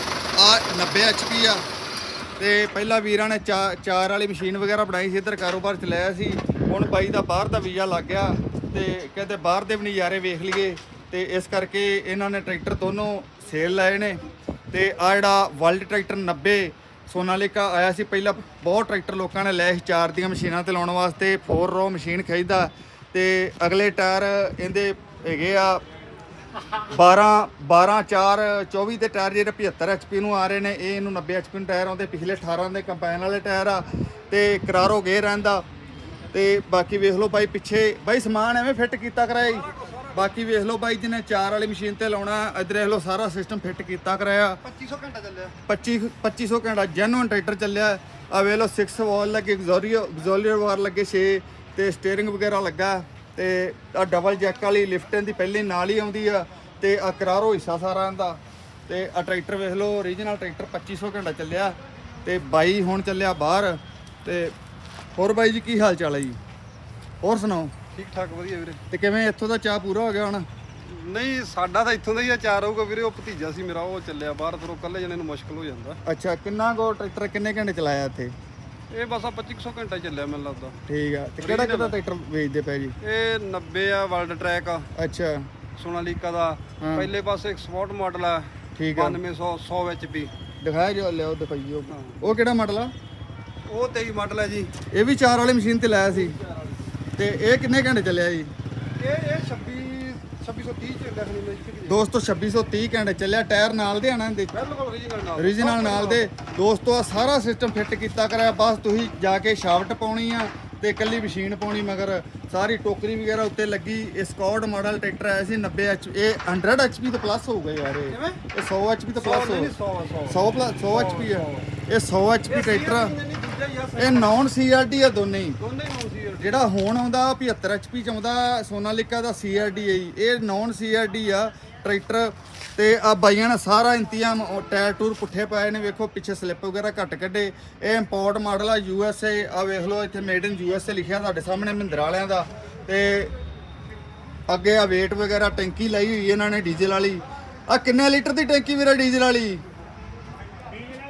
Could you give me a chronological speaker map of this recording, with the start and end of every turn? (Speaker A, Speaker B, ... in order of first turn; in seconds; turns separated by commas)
Speaker A: 0.4-1.6, Speaker A: 2.4-25.8, Speaker A: 26.9-35.6, Speaker A: 36.3-44.6, Speaker B: 39.4-40.3, Speaker B: 44.6-45.5, Speaker A: 45.6-64.5, Speaker A: 65.1-66.4, Speaker A: 67.2-67.7, Speaker B: 67.9-68.8, Speaker A: 68.9-70.5, Speaker B: 70.8-76.0, Speaker A: 76.0-78.3, Speaker B: 78.9-80.8, Speaker A: 80.9-83.0, Speaker B: 81.4-82.0, Speaker B: 83.0-84.9, Speaker A: 84.9-85.5, Speaker B: 85.8-90.3, Speaker A: 86.8-87.1, Speaker A: 88.8-89.2, Speaker A: 90.6-92.9, Speaker B: 91.9-92.3, Speaker B: 93.7-94.7, Speaker A: 94.9-96.4, Speaker B: 96.1-96.8, Speaker A: 97.2-98.5, Speaker B: 99.0-102.0, Speaker A: 101.9-104.5, Speaker B: 104.5-106.3, Speaker A: 105.4-119.7, Speaker B: 118.1-118.4, Speaker B: 119.2-121.7, Speaker A: 120.3-123.1, Speaker B: 122.5-124.3, Speaker A: 124.0-125.6, Speaker B: 125.6-126.6, Speaker A: 126.4-143.3, Speaker A: 144.5-149.6